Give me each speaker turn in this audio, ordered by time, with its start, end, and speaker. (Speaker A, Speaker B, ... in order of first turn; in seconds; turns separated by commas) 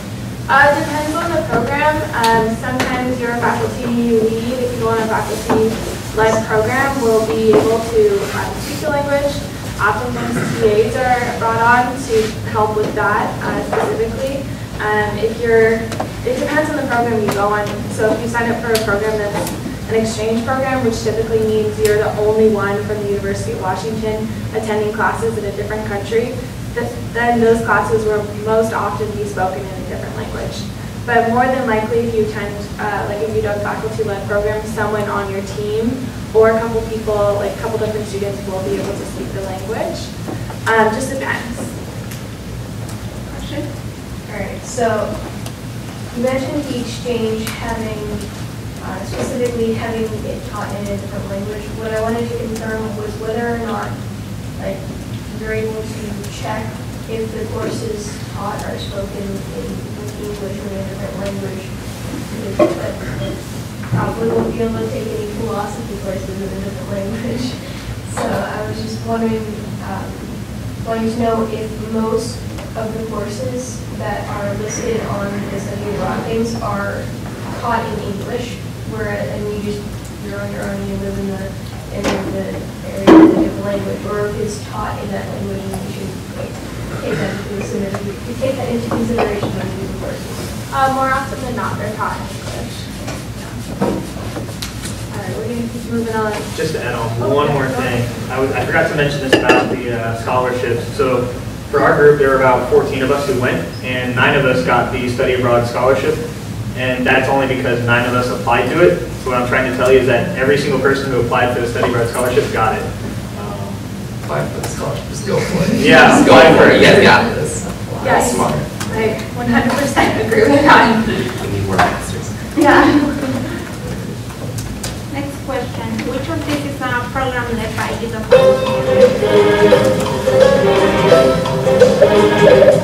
Speaker A: 0.5-40.1, Speaker A: 40.6-41.7, Speaker B: 43.3-43.7, Speaker C: 44.2-90.6, Speaker A: 90.7-93.6, Speaker A: 95.1-96.5, Speaker D: 96.5-106.2, Speaker A: 97.2-98.1, Speaker D: 106.7-113.8, Speaker E: 114.2-119.0, Speaker D: 115.8-117.2, Speaker A: 118.0-121.3, Speaker E: 121.3-122.6, Speaker A: 122.5-123.5, Speaker E: 123.8-124.2, Speaker B: 125.1-129.3